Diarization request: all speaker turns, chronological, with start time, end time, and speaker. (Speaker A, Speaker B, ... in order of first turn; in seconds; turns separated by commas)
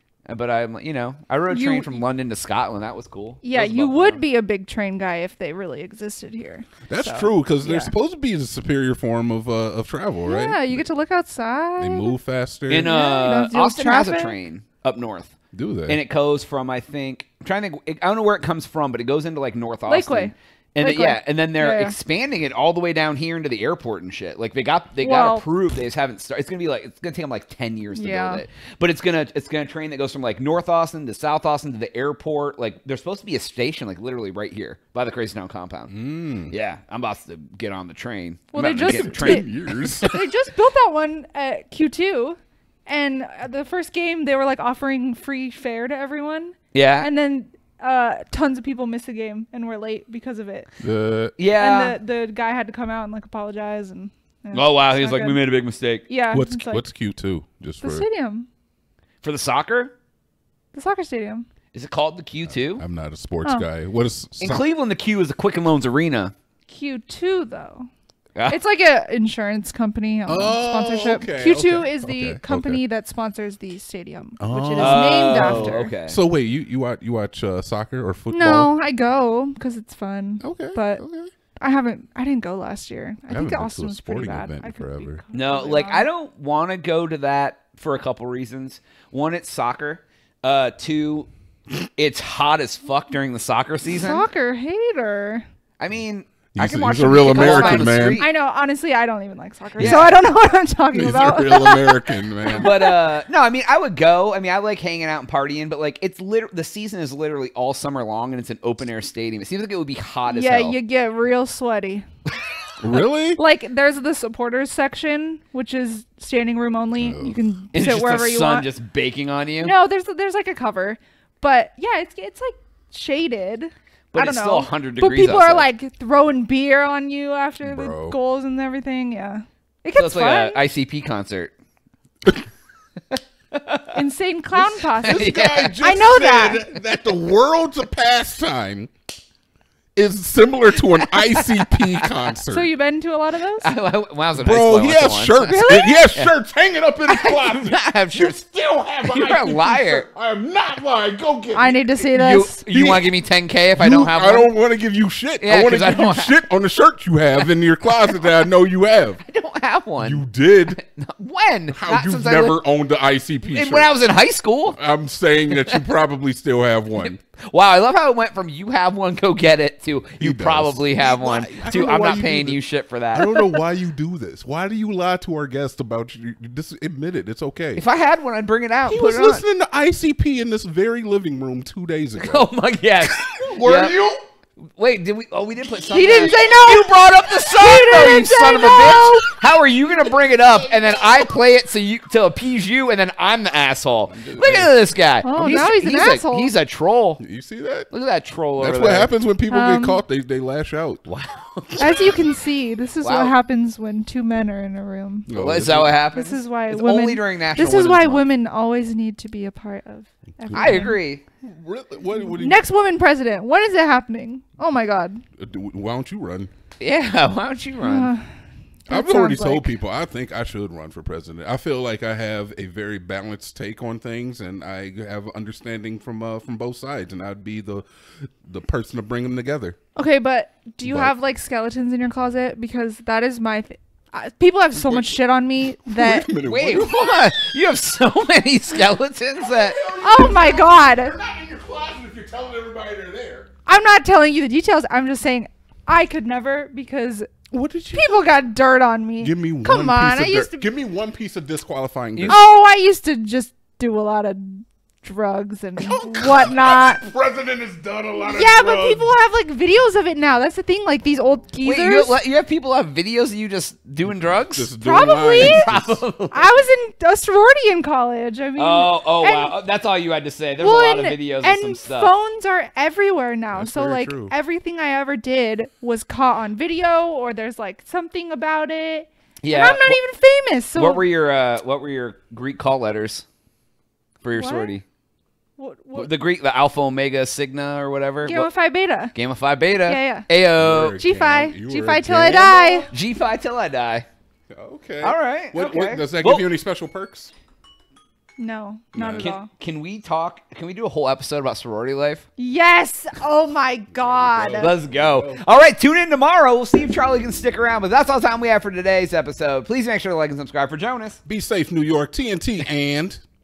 Speaker A: 0.3-4.2, Speaker B: 1.5-2.0, Speaker B: 3.4-7.9, Speaker C: 6.9-10.8, Speaker B: 10.2-12.2, Speaker C: 11.8-12.9, Speaker A: 12.7-15.3, Speaker B: 12.8-14.3, Speaker C: 15.5-16.0, Speaker A: 15.9-35.9, Speaker B: 19.9-21.9, Speaker B: 25.0-25.5, Speaker B: 27.9-28.4, Speaker C: 35.9-36.5, Speaker A: 36.5-40.1, Speaker B: 38.5-39.5, Speaker C: 38.6-40.1, Speaker B: 40.1-50.7, Speaker A: 46.7-47.1, Speaker C: 50.8-51.4, Speaker A: 51.4-52.0, Speaker B: 51.6-55.4, Speaker A: 54.5-56.0, Speaker B: 56.1-56.8, Speaker C: 56.3-58.0, Speaker B: 57.8-58.5, Speaker A: 59.2-59.9, Speaker B: 60.7-61.4, Speaker A: 61.7-62.8, Speaker C: 62.6-64.6, Speaker A: 64.4-66.3, Speaker B: 66.7-67.9, Speaker B: 68.5-75.9, Speaker C: 70.3-72.8, Speaker C: 74.4-78.7, Speaker A: 74.8-76.2, Speaker B: 78.3-81.0, Speaker C: 80.4-81.3, Speaker B: 81.6-86.1, Speaker C: 83.3-85.2, Speaker A: 85.3-91.3, Speaker A: 91.9-94.2, Speaker B: 93.9-95.4, Speaker A: 95.8-98.3, Speaker C: 96.5-98.2, Speaker B: 97.3-103.0, Speaker A: 99.8-100.1, Speaker C: 99.8-100.1, Speaker C: 100.9-102.7, Speaker A: 102.5-110.8, Speaker B: 110.3-112.0, Speaker C: 112.8-113.4, Speaker B: 113.3-118.7, Speaker C: 117.0-117.4, Speaker A: 117.7-119.7, Speaker B: 119.6-130.6, Speaker A: 124.1-125.7, Speaker C: 127.6-128.2, Speaker A: 129.9-131.5, Speaker A: 133.1-133.9, Speaker B: 133.9-136.7, Speaker C: 134.5-138.9, Speaker A: 135.0-135.7, Speaker C: 139.9-142.7, Speaker A: 140.8-142.2, Speaker B: 142.5-143.7, Speaker A: 143.6-145.5, Speaker C: 144.3-151.9, Speaker B: 145.5-146.1, Speaker A: 147.1-148.4, Speaker A: 149.0-150.1, Speaker B: 151.5-152.7, Speaker A: 152.1-154.5, Speaker C: 152.7-153.1, Speaker C: 153.7-159.2, Speaker A: 155.4-156.4, Speaker A: 159.2-162.6, Speaker C: 160.0-160.8, Speaker C: 161.7-163.9, Speaker A: 163.4-164.8, Speaker C: 164.7-167.2, Speaker A: 165.5-165.8, Speaker A: 166.9-173.5, Speaker C: 170.2-172.6, Speaker C: 173.1-177.8, Speaker A: 177.8-179.4, Speaker C: 178.9-182.5, Speaker A: 182.2-184.0, Speaker C: 183.2-184.2, Speaker A: 184.7-197.2, Speaker B: 185.9-189.2, Speaker C: 194.1-194.7, Speaker B: 195.2-196.5, Speaker C: 197.2-197.9, Speaker A: 197.9-199.1, Speaker C: 198.6-201.0, Speaker B: 199.5-200.0, Speaker A: 201.1-201.9, Speaker B: 201.8-205.3, Speaker A: 203.0-203.3, Speaker C: 205.3-206.0, Speaker A: 205.3-208.2, Speaker B: 206.1-211.0, Speaker C: 210.4-212.6, Speaker A: 210.5-211.2, Speaker B: 212.2-215.2, Speaker C: 215.4-216.5, Speaker A: 216.8-218.1, Speaker B: 217.8-218.2, Speaker B: 218.9-219.7, Speaker C: 218.9-229.8, Speaker B: 229.9-236.3, Speaker C: 230.8-231.1, Speaker C: 234.8-235.1, Speaker C: 235.8-237.2, Speaker A: 236.4-239.8, Speaker C: 239.4-243.5, Speaker B: 240.0-241.2, Speaker B: 243.7-247.3, Speaker C: 247.5-248.2, Speaker B: 247.9-250.7, Speaker C: 249.2-252.4, Speaker B: 252.2-257.0, Speaker C: 255.8-259.1, Speaker B: 258.2-262.2, Speaker A: 261.6-264.7, Speaker C: 264.0-266.0, Speaker B: 264.8-265.7, Speaker A: 265.3-266.4, Speaker B: 266.3-269.6, Speaker A: 268.6-272.1, Speaker B: 270.6-281.1, Speaker C: 273.5-274.3, Speaker A: 279.4-280.0, Speaker A: 280.7-283.2, Speaker A: 284.2-284.8, Speaker B: 284.3-284.8, Speaker B: 285.6-286.1, Speaker A: 285.9-288.5, Speaker B: 288.2-289.1, Speaker A: 289.1-291.0, Speaker B: 289.8-290.3, Speaker C: 290.6-292.9, Speaker B: 291.0-292.9, Speaker A: 292.9-294.1, Speaker C: 294.5-297.3, Speaker A: 295.0-296.5, Speaker B: 298.4-299.5, Speaker C: 298.9-299.4, Speaker A: 299.0-302.2, Speaker B: 302.4-304.8, Speaker C: 303.9-305.4, Speaker A: 304.6-311.2, Speaker C: 311.2-313.2